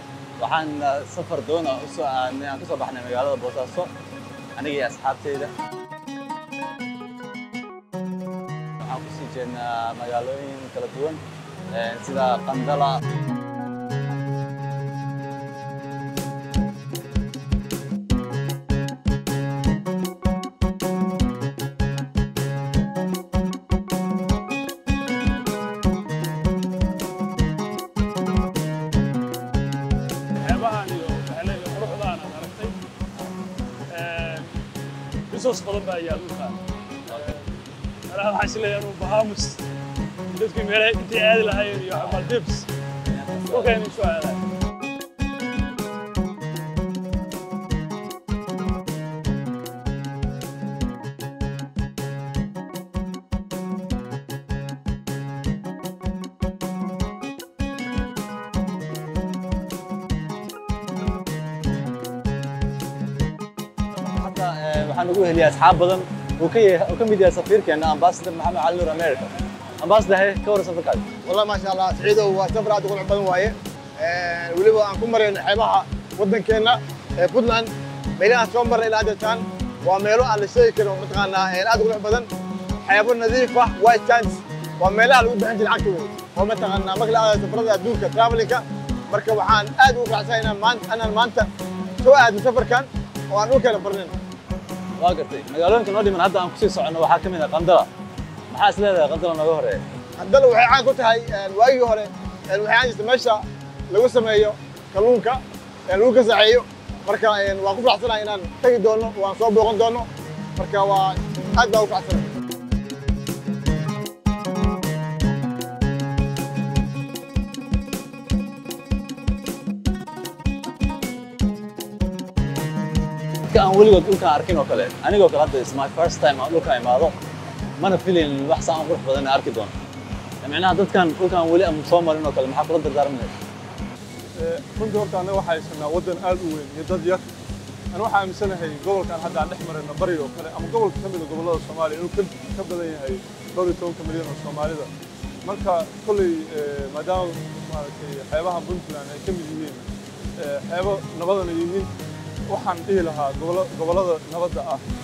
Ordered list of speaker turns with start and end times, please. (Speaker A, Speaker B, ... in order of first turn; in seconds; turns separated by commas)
Speaker A: 0.4-3.9, Speaker A: 4.5-5.5, Speaker A: 8.8-13.0, Speaker B: 30.4-32.8, Speaker B: 33.9-34.5, Speaker B: 35.3-37.5, Speaker B: 38.1-39.6, Speaker B: 40.3-42.7, Speaker A: 43.1-43.8, Speaker B: 43.5-44.4, Speaker A: 63.9-69.3, Speaker A: 69.8-71.1, Speaker C: 71.2-82.3, Speaker C: 82.8-91.5, Speaker C: 92.0-94.2, Speaker A: 95.0-97.9, Speaker A: 98.5-99.8, Speaker C: 100.2-112.3, Speaker A: 123.5-127.2, Speaker A: 127.8-129.7, Speaker A: 130.4-133.3, Speaker D: 134.4-137.2, Speaker D: 137.9-144.9, Speaker D: 145.4-151.9, Speaker D: 152.5-154.8